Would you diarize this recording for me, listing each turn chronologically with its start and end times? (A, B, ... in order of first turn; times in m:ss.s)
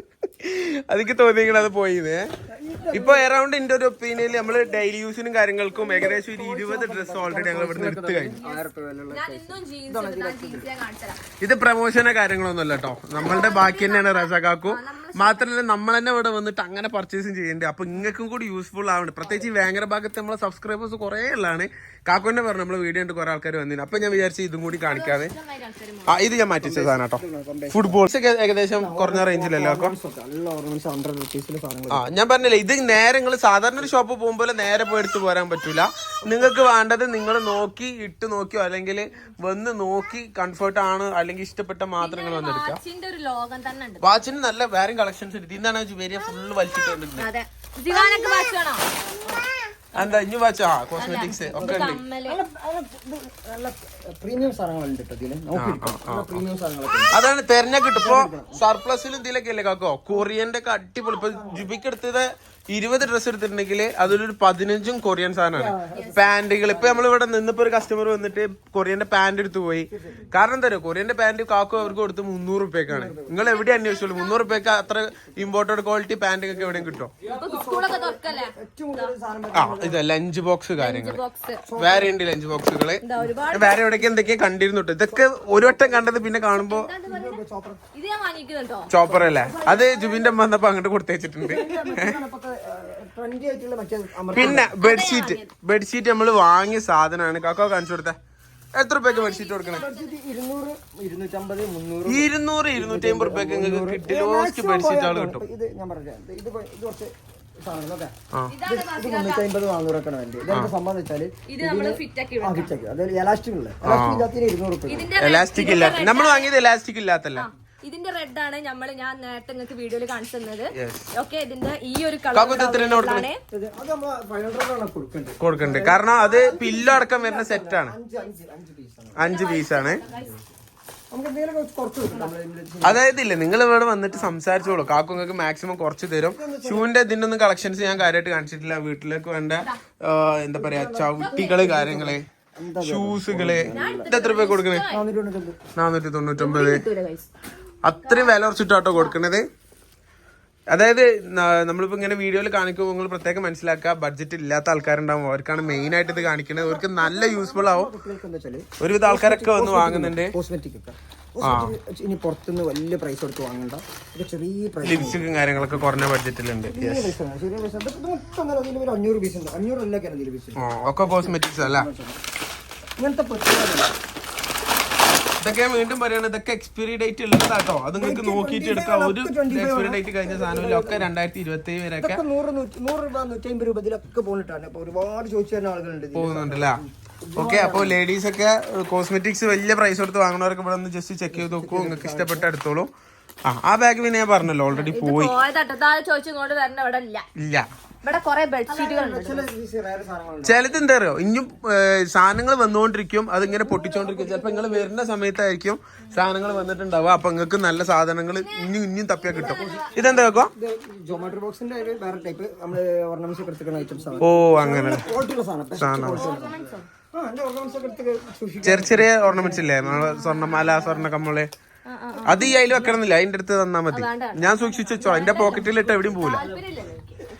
0:00.4-0:02.2 A
0:02.5-0:03.2 B
0:02.9-0:08.4 A
0:05.7-0:10.7 B
0:08.4-0:11.2 C
0:11.4-0:25.3 A
0:13.2-0:15.5 C
0:24.9-0:26.3 C
0:26.1-0:27.2 A
0:26.6-0:28.0 B
0:27.7-0:30.0 A
0:28.8-0:32.0 B
0:31.9-0:42.8 A
0:42.0-0:44.2 C
0:44.0-0:47.3 A
0:47.2-0:50.2 C
0:49.9-0:52.0 A
0:51.0-0:52.4 C
0:51.6-0:57.2 B
0:55.6-0:56.4 A
0:57.1-1:17.1 A
0:58.0-0:58.6 B
1:01.2-1:01.6 B
1:05.5-1:07.0 B
1:09.9-1:10.3 B
1:12.9-1:13.3 B
1:13.5-1:14.5 C
1:16.5-1:20.0 B
1:17.2-1:19.1 C
1:19.5-1:21.2 A
1:20.8-1:21.6 C
1:21.6-1:22.1 B
1:21.8-1:26.9 A
1:23.0-1:23.8 C
1:25.1-1:26.1 B
1:26.6-1:27.4 C
1:27.0-1:27.8 B
1:27.9-1:28.9 C
1:28.9-1:32.2 A
1:29.0-1:30.3 B
1:31.4-1:34.7 B
1:34.3-1:38.2 A
1:34.4-1:35.5 C
1:38.7-1:39.9 A
1:39.1-1:40.1 C
1:39.7-1:55.1 B
1:42.0-1:45.4 A
1:48.5-1:49.5 C
1:51.5-1:52.7 C
1:53.8-1:54.3 A
1:54.9-1:56.5 C
1:55.2-1:57.5 A
1:57.4-2:03.4 C
2:00.7-2:01.1 A
2:02.3-2:03.3 A
2:03.5-2:09.2 B
2:05.4-2:07.9 A
2:09.2-2:10.0 A
2:09.2-2:10.4 C
2:10.0-2:10.5 B
2:11.1-2:13.0 B
2:12.8-2:22.2 A
2:16.3-2:16.9 B
2:20.6-2:24.1 B
2:21.2-2:21.7 C
2:22.8-2:24.9 A
2:23.7-2:25.0 C
2:24.9-2:25.6 B
2:25.8-2:26.8 A
2:26.4-2:27.3 C
2:27.8-2:29.4 A
2:28.0-2:28.4 C
2:30.7-2:37.9 A
2:36.5-2:45.2 B
2:38.8-2:40.3 A
2:41.4-2:41.7 A
2:44.8-2:47.1 A
2:46.7-2:52.2 B
2:50.6-2:51.9 A
2:53.0-2:53.9 B
2:55.4-3:02.2 A
2:58.0-3:01.1 B
3:02.0-3:08.0 B
3:06.1-3:06.8 A
3:07.4-3:12.9 A
3:11.3-3:12.5 B
3:13.4-3:15.4 A
3:14.7-3:17.2 C
3:17.4-3:17.7 A
3:18.0-3:19.5 C
3:18.7-3:20.6 B
3:20.4-3:30.5 A
3:23.4-3:24.9 B
3:28.4-3:28.7 C
3:29.2-3:29.9 C
3:29.3-3:40.1 B
3:34.2-3:35.0 A
3:35.8-3:36.3 A
3:36.2-3:36.9 C
3:38.6-3:41.5 A
3:40.2-3:41.0 C
3:41.9-3:43.0 C
3:42.2-3:46.4 A
3:43.9-3:47.3 C
3:46.3-3:46.6 B